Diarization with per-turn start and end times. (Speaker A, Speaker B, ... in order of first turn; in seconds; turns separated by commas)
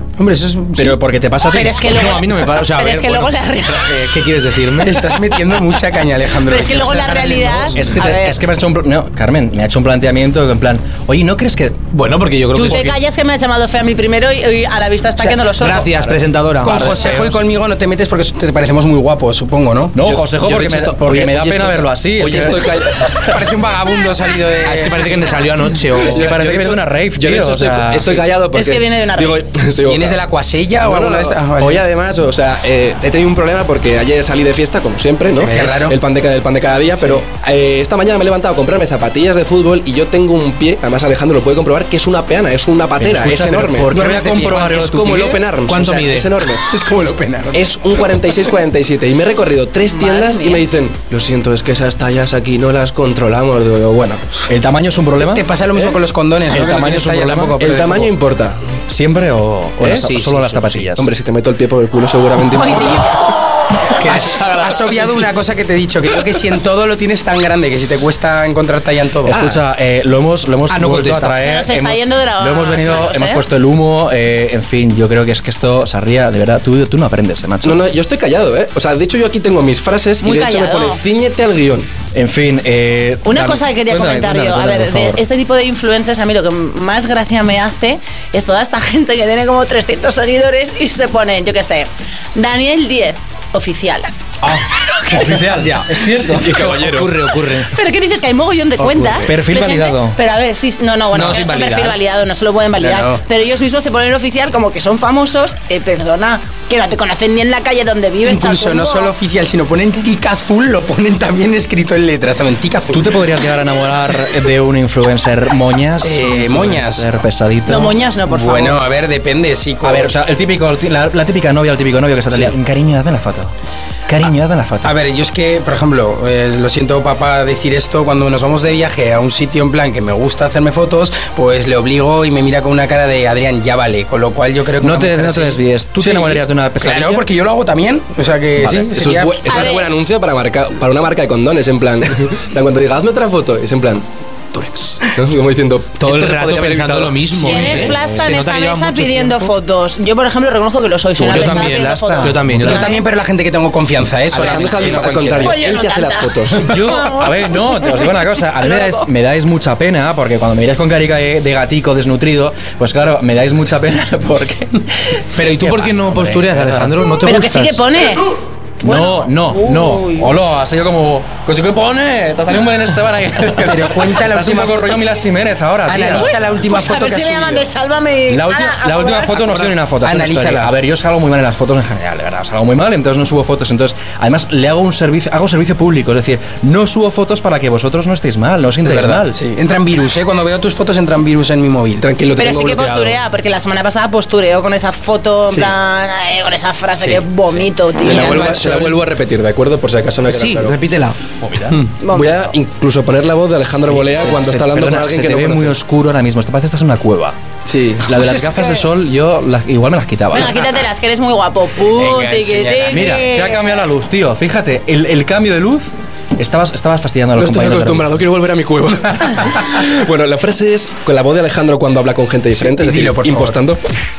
Speaker A: 0.2-1.0, Speaker B: 0.7-1.9, Speaker C: 1.5-4.1, Speaker D: 1.8-5.1, Speaker A: 4.8-7.9, Speaker C: 6.4-8.4, Speaker B: 7.8-11.9, Speaker D: 11.9-13.0, Speaker C: 12.5-16.2, Speaker D: 15.6-17.4, Speaker A: 16.6-20.0, Speaker B: 19.9-22.7, Speaker E: 20.0-23.4, Speaker A: 23.1-25.4, Speaker D: 24.6-26.6, Speaker E: 26.0-30.2, Speaker B: 26.0-28.2, Speaker C: 28.5-29.5, Speaker A: 29.8-31.9, Speaker E: 30.8-46.6, Speaker A: 35.4-36.0, Speaker B: 43.0-45.4, Speaker A: 43.9-44.7, Speaker D: 45.7-46.3, Speaker A: 46.6-47.6, Speaker E: 47.5-54.3, Speaker C: 49.9-50.6, Speaker B: 54.5-55.5, Speaker A: 55.2-58.1, Speaker B: 56.5-57.6, Speaker E: 57.6-58.7, Speaker B: 58.9-61.1, Speaker E: 59.8-60.1, Speaker D: 59.8-60.9, Speaker E: 60.9-63.2, Speaker C: 62.6-63.8, Speaker A: 63.9-69.6, Speaker D: 63.9-65.3, Speaker B: 69.2-77.8, Speaker D: 70.7-71.4, Speaker C: 71.4-73.4, Speaker E: 77.6-81.9, Speaker C: 80.2-81.0, Speaker B: 82.1-85.2, Speaker C: 83.2-94.1, Speaker B: 94.4-97.7, Speaker D: 95.1-97.7, Speaker E: 96.1-97.1, Speaker C: 97.6-109.1, Speaker B: 99.2-100.2, Speaker D: 101.1-102.0, Speaker A: 102.8-103.2, Speaker A: 108.2-113.2, Speaker B: 112.9-118.0, Speaker A: 116.0-117.1, Speaker C: 117.7-118.8, Speaker A: 118.3-120.1, Speaker B: 119.8-123.5, Speaker B: 124.1-125.0, Speaker A: 124.8-139.7, Speaker B: 134.8-137.2, Speaker E: 138.6-147.9, Speaker C: 139.4-139.9, Speaker D: 146.0-149.5, Speaker C: 147.4-153.1, Speaker B: 151.2-152.8, Speaker D: 151.2-152.9, Speaker A: 152.6-155.6, Speaker E: 154.3-156.7, Speaker C: 155.4-159.0, Speaker B: 156.6-166.9, Speaker D: 165.3-167.8, Speaker C: 167.2-170.3, Speaker B: 168.8-176.4, Speaker A: 173.6-175.0, Speaker A: 175.8-177.7, Speaker C: 176.1-179.4, Speaker B: 178.3-189.3, Speaker A: 179.5-180.8, Speaker A: 188.8-192.1, Speaker E: 192.0-193.2, Speaker C: 192.3-198.5, Speaker E: 198.0-200.8, Speaker A: 198.0-198.9, Speaker D: 198.1-199.0, Speaker D: 200.2-201.8, Speaker C: 202.0-202.4, Speaker E: 202.1-205.8, Speaker B: 203.9-207.3, Speaker E: 207.7-208.2, Speaker B: 208.0-210.7, Speaker A: 208.2-208.5, Speaker C: 210.3-213.8, Speaker A: 211.9-213.1, Speaker B: 212.9-218.1, Speaker E: 217.3-223.8, Speaker A: 222.6-223.6